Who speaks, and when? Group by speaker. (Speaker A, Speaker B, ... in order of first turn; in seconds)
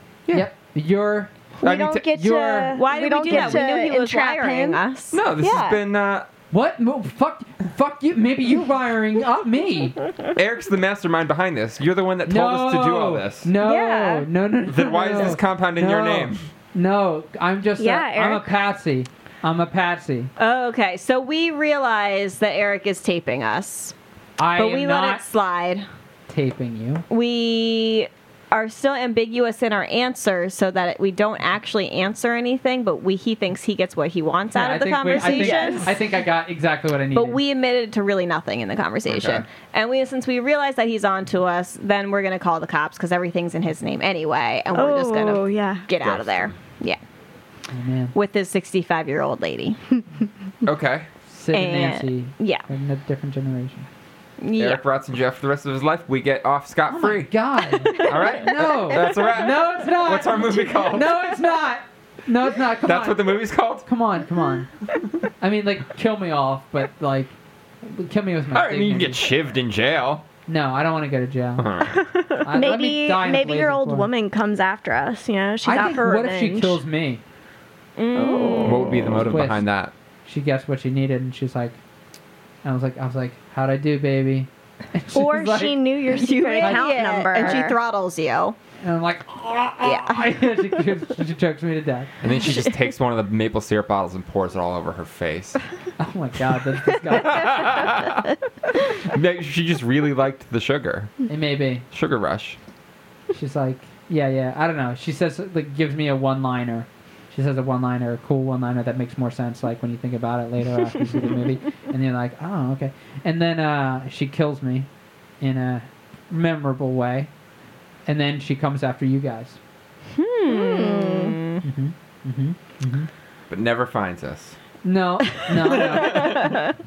Speaker A: 0.3-3.7, 6.5-10.0, 12.3-20.3, 24.4-25.2, 26.3-27.1, 34.5-37.4, 47.7-48.1, 51.3-53.9, 56.9-64.7, 65.4-69.3, 70.5-71.8, 72.4-74.1, 75.6-77.2, 79.3-79.7, 80.2-81.8, 82.6-87.7, 88.8-92.1, 96.0-97.9, 101.3-101.8, 103.3-114.9, 115.4-117.3, 118.1-119.6, 121.6-123.1, 124.8-126.6
Speaker B: 1.6-4.8, 5.4-5.8, 13.6-14.3, 17.8-18.6, 35.1-36.0, 44.7-45.9, 72.5-76.8, 78.2-79.4, 85.1-87.8, 120.5-121.4
Speaker C: 1.6-2.1, 5.1-6.3, 10.4-13.5, 14.6-16.5, 39.1-39.5, 46.0-46.6, 50.6-51.1, 54.6-61.2, 62.8-63.9, 68.5-70.3, 71.6-72.1, 78.6-79.9, 92.2-95.6, 97.1-98.3, 98.9-101.1, 101.9-102.6, 123.5-124.6, 125.5-126.7
Speaker D: 2.7-5.2, 20.4-23.9, 24.6-25.9, 27.1-35.9, 37.1-47.0, 48.1-49.8, 51.5-52.6, 54.4-54.8, 78.0-79.0, 86.1-88.6, 89.8-90.8, 120.2-121.6